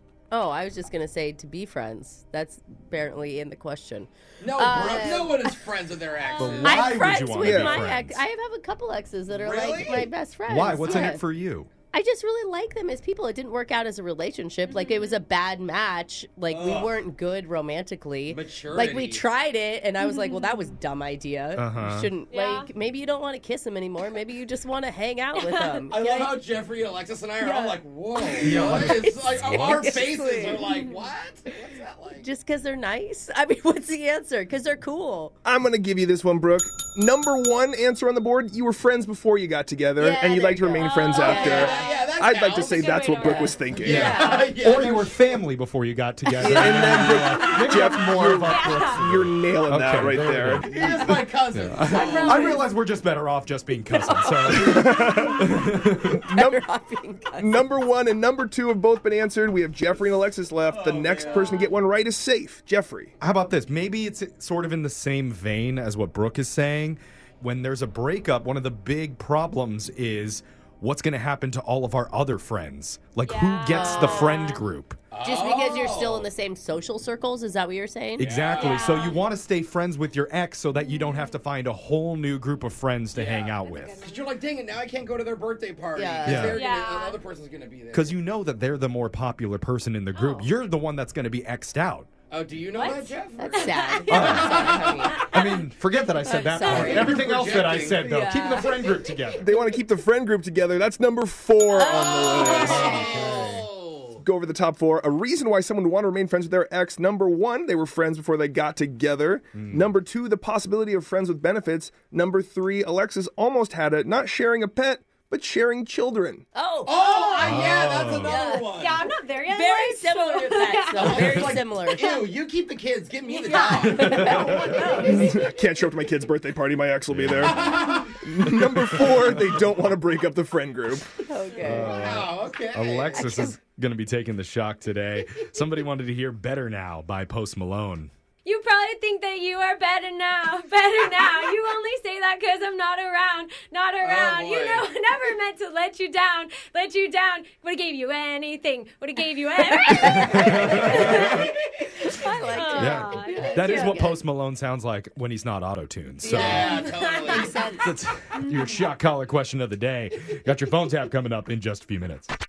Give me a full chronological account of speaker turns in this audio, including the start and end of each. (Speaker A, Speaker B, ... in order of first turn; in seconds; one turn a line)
Speaker A: 0.3-5.6
Speaker B: 4.4-7.0
Speaker A: 6.2-11.2
Speaker C: 6.4-8.2
Speaker D: 6.5-6.9
Speaker E: 7.4-7.8
Speaker B: 9.3-10.1
Speaker C: 10.5-11.7
Speaker D: 10.9-11.2
Speaker A: 11.9-26.4
Speaker D: 14.7-15.2
Speaker B: 16.5-17.0
Speaker B: 18.3-19.3
Speaker D: 20.0-20.7
Speaker C: 21.6-22.1
Speaker D: 22.3-22.7
Speaker D: 25.4-25.9
Speaker B: 25.9-32.3
Speaker A: 27.4-30.7
Speaker C: 28.4-29.9
Speaker D: 30.4-31.0
Speaker A: 32.2-35.3
Speaker E: 35.4-44.1
Speaker A: 40.0-41.9
Speaker D: 40.8-44.6
Speaker B: 41.2-43.1
Speaker B: 43.7-45.1
Speaker C: 43.9-56.2
Speaker E: 46.4-50.7
Speaker A: 46.6-47.0
Speaker D: 46.8-49.0
Speaker B: 50.6-52.5
Speaker D: 52.0-52.6
Speaker A: 52.0-52.5
Speaker A: 54.4-55.3
Speaker E: 54.5-56.6
Speaker A: 56.3-57.6
Speaker E: 57.4-63.1
Speaker B: 60.7-61.7
Speaker C: 63.2-75.0
Speaker D: 73.2-74.7
Speaker A: 73.7-74.6
Speaker B: 75.1-76.3
Speaker A: 75.2-78.4
Speaker C: 78.2-84.0
Speaker B: 78.2-79.2
Speaker D: 78.5-79.2
Speaker D: 80.9-81.2
Speaker B: 83.1-88.2
Speaker D: 83.6-84.3
Speaker A: 86.0-86.5
Speaker C: 86.2-86.6
Speaker D: 86.5-87.2
Speaker C: 87.9-92.1
Speaker D: 90.2-90.5
Speaker B: 92.3-95.2
Speaker D: 92.7-95.6
Speaker A: 93.4-95.3
Speaker C: 94.1-94.6
Speaker C: 95.3-99.5
Speaker A: 96.2-98.9
Speaker D: 96.5-97.1
Speaker B: 96.6-98.1
Speaker E: 99.4-103.3
Speaker A: 101.8-103.3
Speaker D: 101.9-102.8
Speaker B: 102.4-104.2
Speaker C: 103.0-103.7
Speaker E: 104.2-116.5
Speaker C: 109.5-109.9
Speaker A: 116.5-118.7
Speaker B: 116.8-119.0
Speaker C: 117.4-118.3
Speaker D: 118.7-122.2
Speaker A: 119.5-122.3
Speaker B: 120.9-125.1
Speaker D: 123.3-125.4
Speaker A: 123.4-125.4
Speaker C: 123.9-124.6
Speaker E: 124.7-131.9
Speaker C: 127.1-127.8
Speaker B: 127.4-128.2
Speaker C: 128.9-129.7
Speaker A: 131.3-131.9
Speaker C: 131.6-138.1
Speaker B: 131.8-133.3
Speaker A: 133.2-133.5
Speaker D: 138.4-154.0
Speaker B: 144.0-144.9
Speaker A: 149.9-154.2
Speaker C: 150.0-151.5
Speaker C: 152.7-156.8
Speaker A: 156.2-157.9
Speaker B: 156.2-157.7
Speaker D: 156.6-157.7
Speaker C: 157.8-162.3
Speaker D: 158.3-158.8